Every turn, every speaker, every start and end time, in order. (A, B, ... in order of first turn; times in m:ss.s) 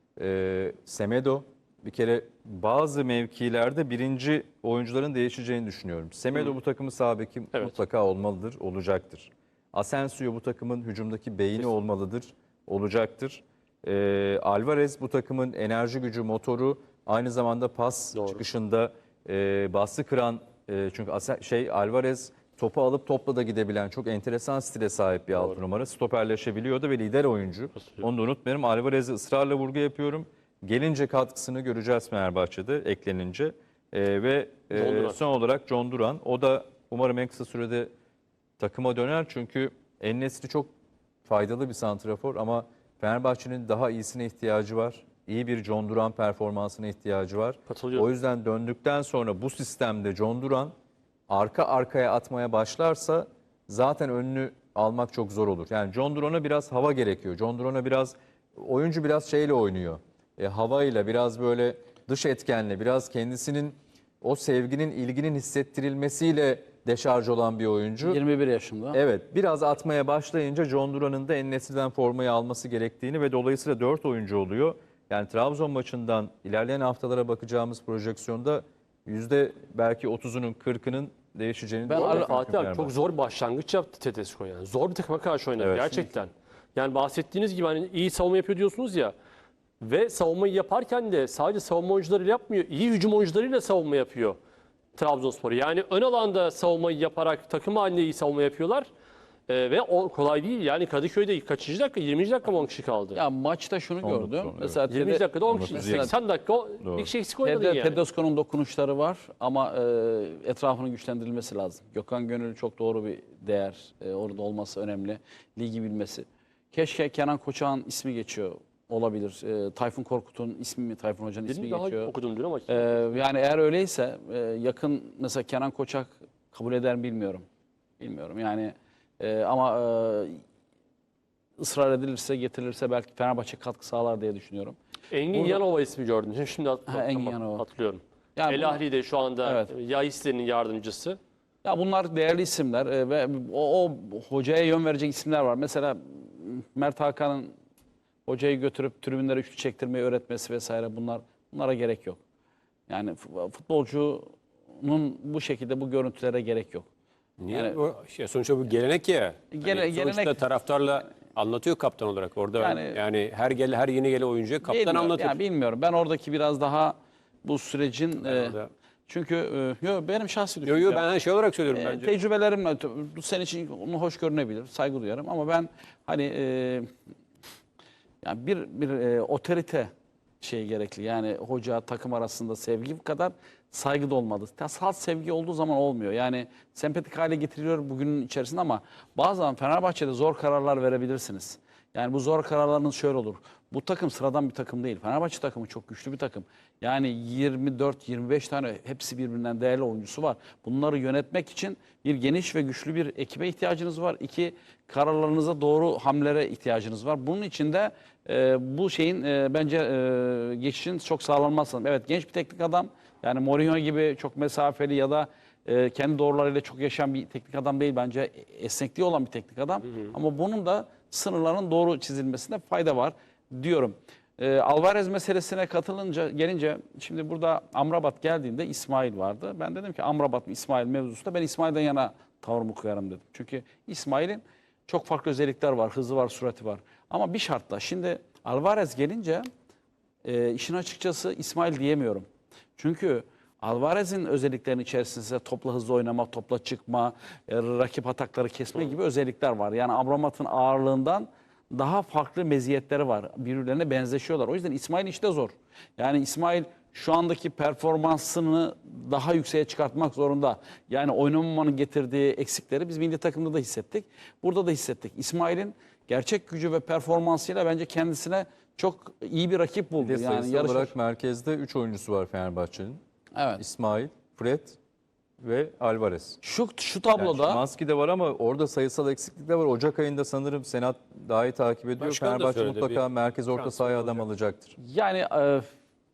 0:00.2-0:37.9 A
0:18.1-0:18.4 B
0:27.8-0:28.0 B
0:34.7-0:35.2 B
0:38.6-0:40.7 A
0:41.2-0:50.7 A
0:47.7-0:48.1 B
0:51.3-1:08.2 A
1:08.0-1:09.0 C
1:08.9-1:22.9 A
1:21.9-1:22.3 C
1:21.9-1:29.1 B
1:25.6-1:26.0 A
1:29.8-1:34.4 B
1:34.9-1:38.9 B
1:39.5-1:43.2 B
1:43.1-1:46.1 C
1:44.0-1:44.8 A
1:44.9-1:48.0 B
1:45.5-1:46.1 A
1:46.8-1:47.1 A
1:47.4-2:02.1 C
2:01.4-2:03.1 B
2:02.7-2:07.4 C
2:08.0-2:10.4 C
2:11.6-2:14.8 C
2:15.1-2:21.2 B
2:15.3-2:15.6 C
2:16.9-2:17.6 C
2:18.4-2:18.8 C
2:19.4-2:19.7 C
2:21.6-2:27.5 C
2:28.2-2:32.2 C
2:32.9-2:36.9 C
2:37.4-2:45.4 D
2:37.5-2:37.8 C
2:39.5-2:40.4 C
2:42.6-2:43.0 C
2:44.6-2:48.6 C
2:48.2-2:48.7 D
2:49.1-2:51.0 C
2:50.6-2:52.1 D
2:51.7-2:56.9 C
2:58.2-3:59.5 C
4:00.2-4:30.9 C
4:30.0-4:33.0 A
4:33.4-4:33.6 C
4:33.6-4:34.8 A
4:35.4-4:36.4 A
4:36.4-4:37.6 C
4:37.2-4:44.7 A
4:42.0-4:44.2 D
4:44.8-4:45.7 C